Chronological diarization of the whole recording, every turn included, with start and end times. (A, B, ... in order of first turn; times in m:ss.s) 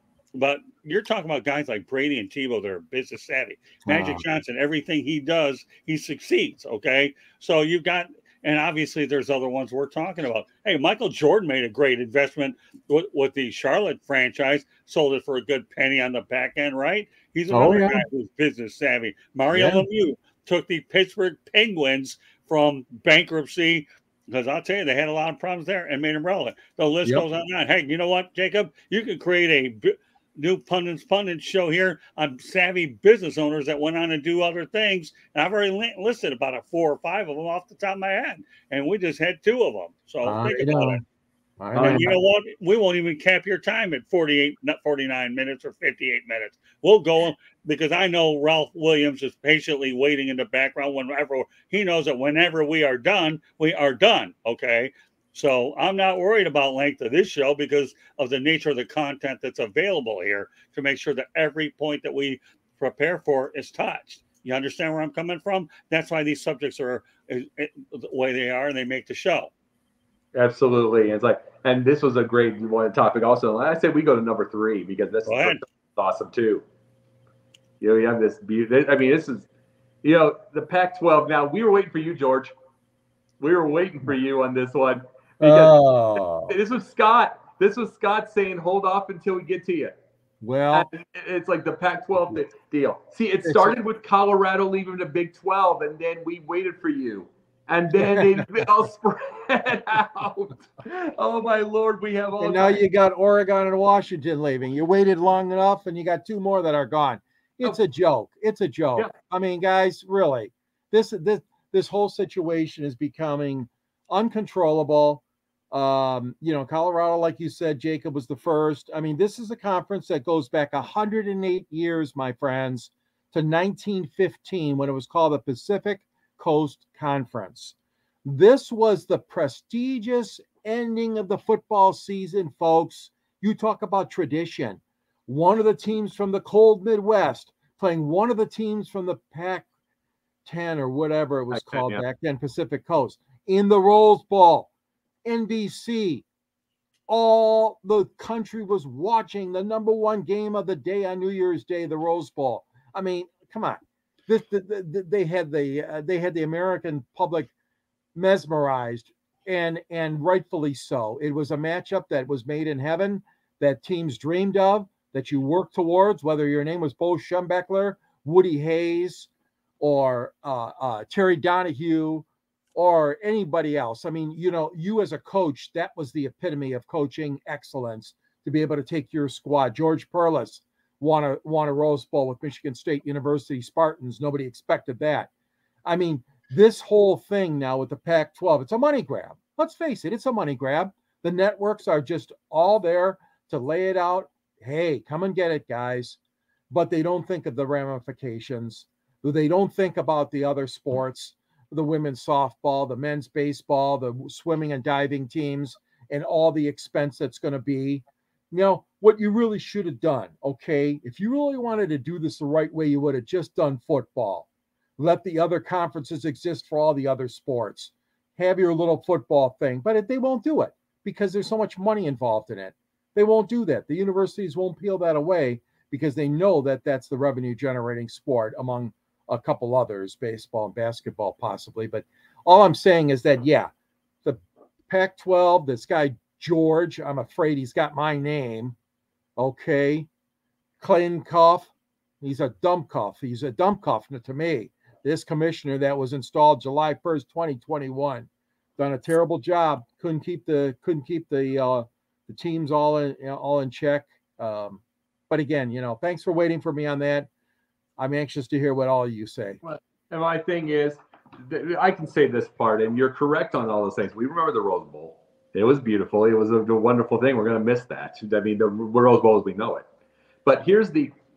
0:00.4-0:41.0 A
0:03.9-0:04.2 B
0:17.5-0:18.0 B
0:19.5-0:19.8 B
0:40.2-0:41.0 B
0:41.6-0:42.1 B
0:41.7-1:09.5 A
0:41.8-0:42.1 C
1:10.3-1:16.6 C
1:15.2-1:15.6 A
1:17.8-1:19.5 C
1:20.0-1:22.5 C
1:23.4-1:29.9 C
1:25.4-1:26.6 B
1:30.4-1:30.9 B
1:30.7-1:42.8 C
1:33.4-1:33.8 B
1:38.0-1:38.5 B
1:42.4-2:19.7 B
2:20.4-2:24.7 B
2:21.5-2:22.0 C
2:25.2-2:26.2 B
2:27.1-2:37.5 B
2:38.1-2:49.3 B
2:49.8-3:05.3 B
3:05.8-3:16.2 B
3:16.7-3:34.5 B
3:35.0-3:53.7 B
3:54.2-3:58.8 B
3:59.4-4:00.1 B
4:00.8-4:17.3 B
4:18.0-4:19.6 B
4:19.6-4:29.8 C
4:30.4-4:31.1 C